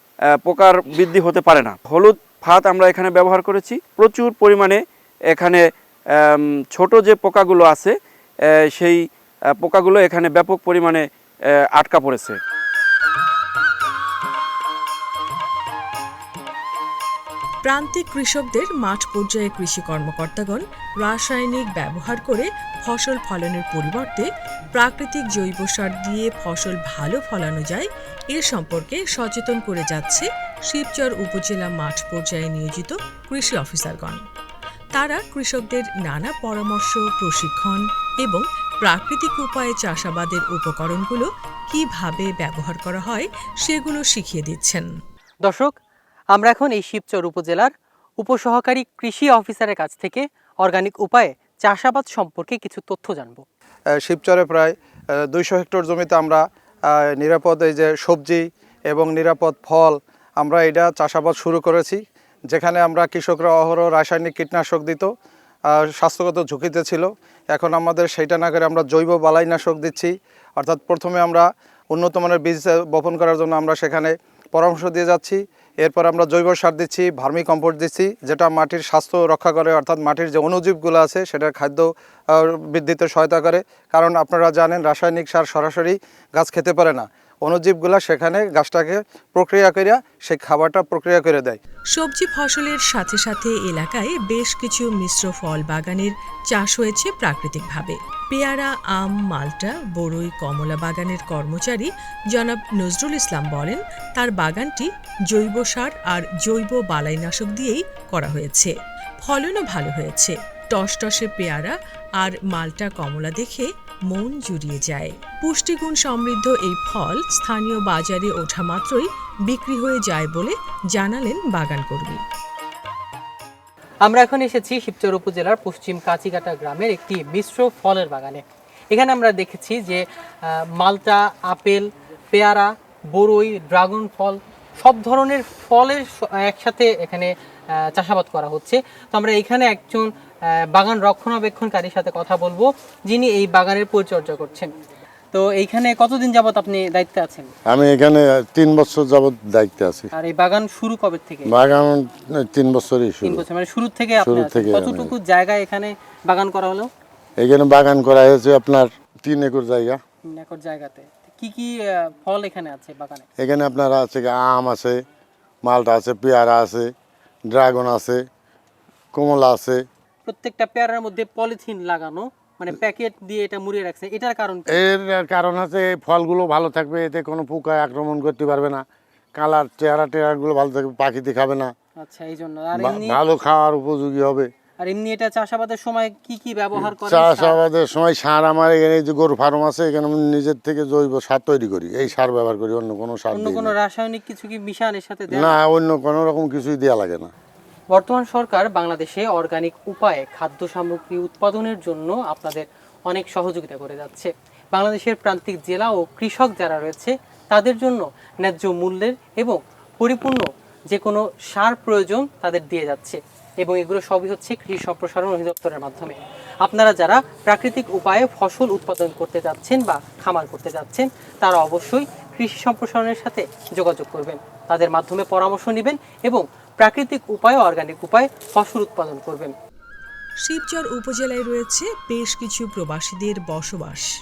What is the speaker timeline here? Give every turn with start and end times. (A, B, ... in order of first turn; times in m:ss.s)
0:00.4-0:04.8 A
0:05.3-0:05.6 A
0:06.2-0:07.9 A
0:08.8-0:09.0 A
0:09.6-0:11.0 A
0:11.8-0:12.4 A
0:17.6-0:34.2 B
0:34.9-0:44.9 B
0:45.4-0:45.7 C
0:46.3-0:53.4 C
0:54.0-1:05.1 D
1:05.7-1:31.6 D
1:31.9-2:02.2 B
2:04.0-2:20.1 C
2:20.7-2:24.7 C
2:25.3-2:27.5 C
2:27.7-2:30.1 E
2:30.1-2:31.5 C
2:31.5-2:33.4 E
2:33.2-2:36.9 C
2:34.2-2:35.1 E
2:37.4-2:40.0 E
2:40.3-2:43.2 C
2:43.4-2:45.0 E
2:45.6-2:46.9 E
2:47.5-2:48.2 E
2:49.1-2:49.8 E
2:50.2-2:54.7 C
2:54.7-2:58.8 E
2:59.4-3:01.7 E
3:02.0-3:03.2 C
3:02.8-3:04.5 E
3:04.8-3:07.6 C
3:06.8-3:13.7 E
3:13.3-3:15.6 C
3:15.3-3:17.3 E
3:17.9-3:49.5 C
3:50.4-3:54.1 B